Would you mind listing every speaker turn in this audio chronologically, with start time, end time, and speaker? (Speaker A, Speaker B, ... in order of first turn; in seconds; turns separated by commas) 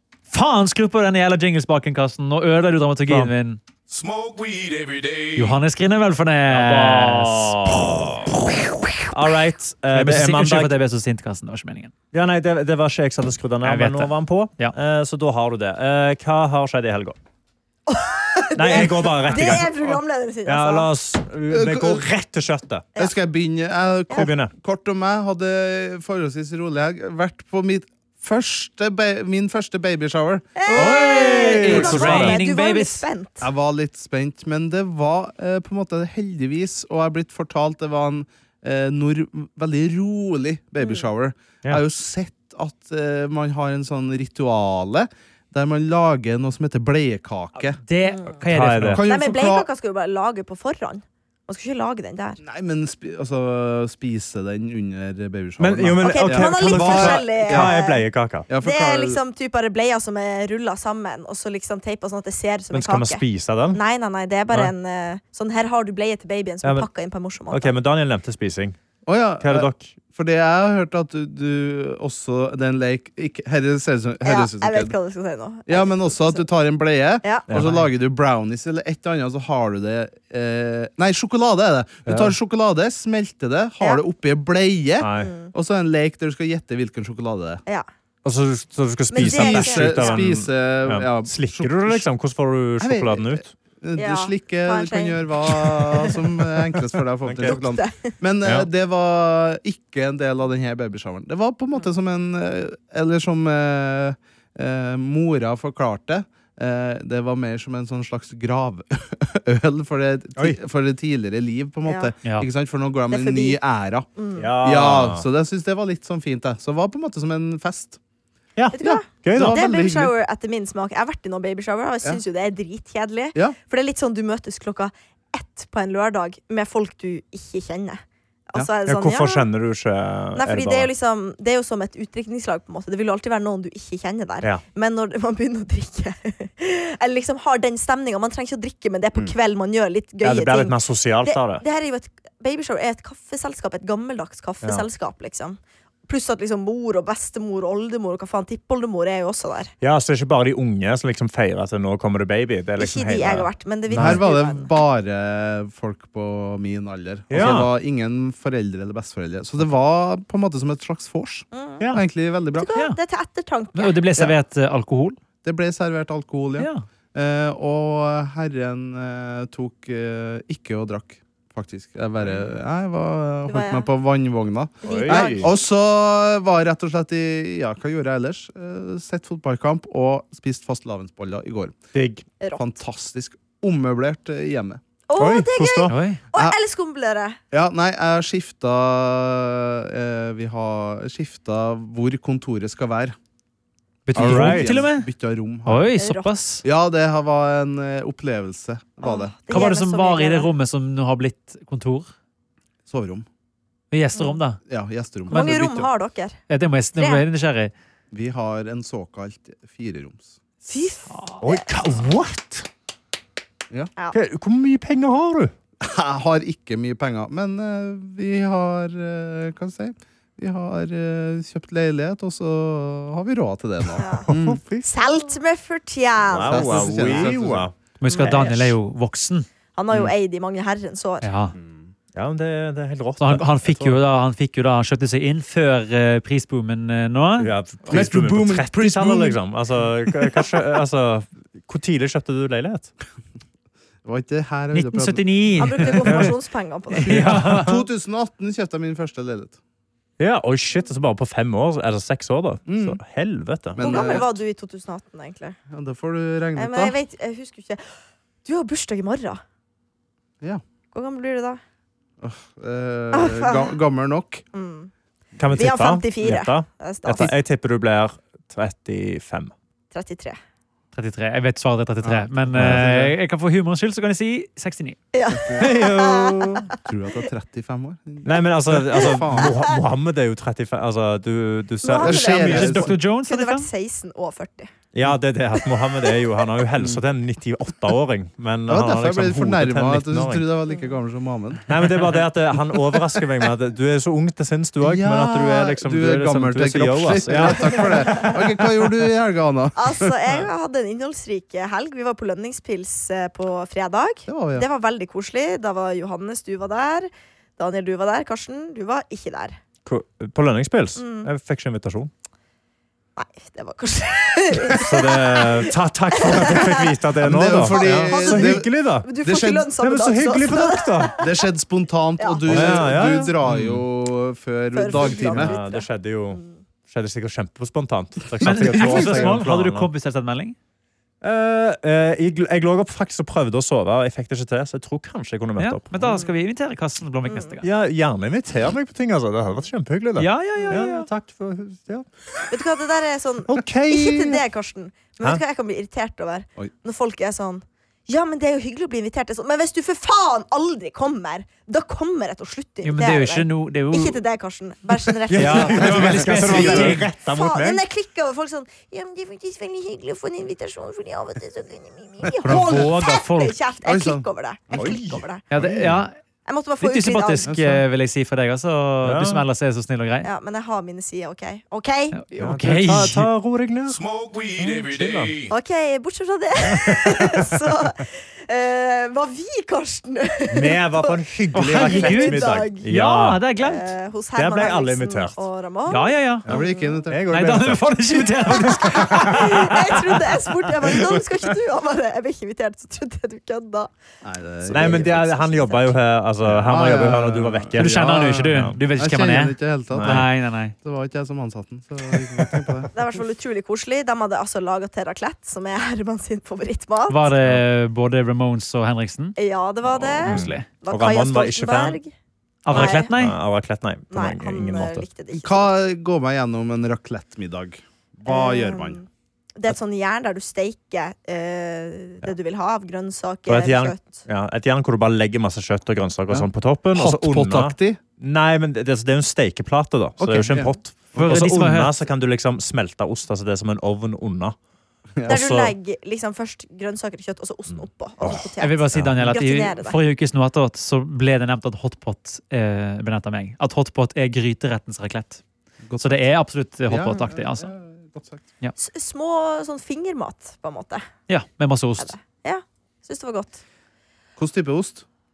Speaker A: 0.3-3.6, Speaker B: 3.1-3.3, Speaker C: 3.9-5.5, Speaker A: 5.4-9.0, Speaker B: 6.5-8.3, Speaker B: 9.1-10.7, Speaker A: 9.9-11.9, Speaker B: 12.1-17.1, Speaker A: 13.6-14.7, Speaker D: 17.9-20.9, Speaker B: 18.6-19.7, Speaker B: 20.4-22.9, Speaker E: 21.5-22.1, Speaker E: 23.0-31.2, Speaker B: 24.1-24.5, Speaker D: 30.6-33.5, Speaker A: 30.7-33.0, Speaker B: 30.8-32.4, Speaker E: 33.4-47.8, Speaker D: 40.8-41.0, Speaker A: 47.8-49.0, Speaker D: 48.0-48.4, Speaker B: 48.5-49.0, Speaker E: 48.8-49.7, Speaker D: 49.0-52.4, Speaker E: 52.4-57.8, Speaker B: 55.6-58.5, Speaker D: 56.0-58.0, Speaker E: 58.5-59.2, Speaker D: 58.6-67.7, Speaker B: 62.7-63.8, Speaker B: 67.5-68.8, Speaker E: 69.0-74.9, Speaker B: 69.4-69.9, Speaker D: 74.2-76.5, Speaker E: 75.7-87.6, Speaker B: 77.5-77.8, Speaker B: 82.0-82.3, Speaker B: 85.0-85.3, Speaker D: 85.2-85.5, Speaker B: 88.2-93.5, Speaker D: 89.1-90.3, Speaker E: 89.2-92.1, Speaker E: 92.8-114.1, Speaker D: 94.0-96.1, Speaker B: 97.2-97.6, Speaker D: 97.4-98.1, Speaker D: 111.8-112.1, Speaker D: 113.1-113.6, Speaker D: 114.2-114.5, Speaker B: 114.4-115.2, Speaker E: 114.6-118.0, Speaker B: 118.5-120.0, Speaker D: 118.7-128.0, Speaker E: 118.8-120.1, Speaker D: 128.5-129.5, Speaker B: 128.8-130.9, Speaker D: 130.3-149.7, Speaker B: 140.2-141.6, Speaker B: 149.8-154.2, Speaker D: 152.8-154.7, Speaker E: 153.9-162.7, Speaker B: 157.3-157.7, Speaker D: 161.5-161.8, Speaker D: 162.5-163.9, Speaker A: 163.7-165.2, Speaker E: 165.4-181.8, Speaker A: 166.6-166.8, Speaker D: 173.5-173.9, Speaker D: 174.8-175.5, Speaker B: 174.8-175.5, Speaker B: 181.9-182.2, Speaker E: 182.6-184.8, Speaker D: 185.1-187.4, Speaker B: 185.2-185.9, Speaker A: 185.9-186.2, Speaker E: 187.5-193.2, Speaker A: 194.1-195.1, Speaker E: 194.1-195.9, Speaker B: 194.1-194.8, Speaker A: 195.7-196.6, Speaker D: 196.0-196.3, Speaker E: 196.6-199.4, Speaker D: 199.0-200.5, Speaker A: 199.5-202.1, Speaker E: 202.9-203.2, Speaker A: 203.9-204.6, Speaker D: 204.1-204.4, Speaker E: 204.7-205.9, Speaker D: 205.3-206.4, Speaker A: 205.3-205.8, Speaker A: 206.5-207.7, Speaker D: 206.9-207.2, Speaker E: 208.1-210.3, Speaker D: 210.6-211.6, Speaker A: 211.1-211.4, Speaker B: 211.4-212.7, Speaker B: 214.1-215.5, Speaker E: 215.8-224.6, Speaker B: 223.9-224.9, Speaker D: 224.0-224.3, Speaker D: 224.8-227.3, Speaker B: 226.3-228.8, Speaker E: 226.4-227.7, Speaker A: 228.0-229.5, Speaker D: 228.1-228.5, Speaker D: 229.8-231.3, Speaker A: 231.2-231.5, Speaker E: 231.6-231.9, Speaker B: 232.1-234.0, Speaker A: 233.2-237.5, Speaker B: 237.4-242.9, Speaker E: 237.9-239.4, Speaker E: 244.0-245.2, Speaker A: 244.7-246.3, Speaker D: 245.6-247.1, Speaker A: 246.9-247.7, Speaker E: 247.0-249.6, Speaker B: 247.1-247.8, Speaker B: 250.2-254.3, Speaker E: 252.7-253.0, Speaker E: 253.7-254.3, Speaker D: 253.8-255.6, Speaker E: 255.7-256.9, Speaker D: 256.6-259.4, Speaker D: 260.9-261.6, Speaker E: 262.2-264.4, Speaker D: 263.1-263.7, Speaker D: 264.5-264.9, Speaker B: 265.4-269.5, Speaker D: 265.5-267.4, Speaker D: 269.9-270.4, Speaker A: 270.9-275.0, Speaker E: 272.0-273.1, Speaker B: 272.5-272.8, Speaker D: 275.1-276.7, Speaker E: 275.3-275.8, Speaker B: 275.6-276.7, Speaker E: 276.8-279.6, Speaker B: 278.2-282.9, Speaker D: 279.0-279.4, Speaker D: 281.8-284.7, Speaker E: 281.9-282.9, Speaker A: 282.5-283.7, Speaker B: 284.9-290.4, Speaker E: 288.7-291.7, Speaker B: 291.7-298.6, Speaker E: 294.8-300.1, Speaker D: 297.7-298.3, Speaker D: 299.8-309.6, Speaker E: 304.2-304.7, Speaker B: 309.9-312.1, Speaker D: 311.0-311.3, Speaker D: 313.2-316.9, Speaker B: 314.7-319.1, Speaker E: 317.2-319.7, Speaker D: 317.7-321.3, Speaker B: 319.8-321.2, Speaker E: 321.2-325.5, Speaker D: 322.2-322.9, Speaker B: 322.5-323.8, Speaker D: 324.7-326.6, Speaker B: 325.0-329.9, Speaker A: 328.4-330.6, Speaker E: 328.4-329.4, Speaker B: 331.2-336.2, Speaker A: 335.6-337.6, Speaker D: 337.3-337.6, Speaker B: 337.6-342.6, Speaker A: 340.2-341.1, Speaker D: 342.5-365.4, Speaker B: 343.5-344.4, Speaker A: 352.8-354.2, Speaker B: 355.3-357.8, Speaker A: 355.4-357.1, Speaker E: 355.5-356.9, Speaker A: 362.4-363.6, Speaker E: 362.5-362.7, Speaker E: 363.8-365.0, Speaker B: 364.8-365.9, Speaker A: 365.5-366.1, Speaker E: 365.5-366.0, Speaker D: 366.4-367.5, Speaker A: 366.8-370.3, Speaker E: 367.4-367.8, Speaker B: 369.0-369.4, Speaker D: 370.2-372.2, Speaker A: 372.1-373.3, Speaker B: 372.4-374.0, Speaker C: 373.9-375.5, Speaker B: 374.6-375.3, Speaker D: 375.5-381.1, Speaker B: 376.7-377.8, Speaker B: 380.5-383.4, Speaker A: 381.5-383.9, Speaker D: 381.7-382.9, Speaker D: 383.6-387.0, Speaker B: 384.3-385.4, Speaker A: 385.9-386.5, Speaker E: 386.4-387.5, Speaker B: 386.5-389.7, Speaker A: 387.3-389.9, Speaker D: 389.1-393.9, Speaker B: 390.9-391.4, Speaker E: 394.2-395.3, Speaker B: 394.7-398.8, Speaker D: 394.7-395.9, Speaker E: 396.4-402.9, Speaker A: 397.8-400.7, Speaker B: 399.9-400.2, Speaker D: 402.9-407.3, Speaker A: 407.1-409.4, Speaker D: 409.4-412.1, Speaker B: 409.9-412.0, Speaker A: 410.2-410.6, Speaker A: 412.6-413.4, Speaker B: 412.7-415.1, Speaker D: 412.7-413.1, Speaker D: 414.1-415.7, Speaker E: 415.3-419.0, Speaker D: 418.2-424.2, Speaker B: 423.5-434.6, Speaker E: 426.3-428.0, Speaker E: 430.2-431.4, Speaker A: 431.2-432.1, Speaker E: 435.2-435.5, Speaker B: 435.2-435.7, Speaker D: 435.3-440.0, Speaker B: 438.2-439.2, Speaker A: 438.6-445.4, Speaker E: 445.9-446.3, Speaker A: 446.0-447.7, Speaker E: 446.9-448.4, Speaker D: 448.8-451.1, Speaker A: 451.3-452.1, Speaker D: 452.0-453.6, Speaker E: 454.4-455.0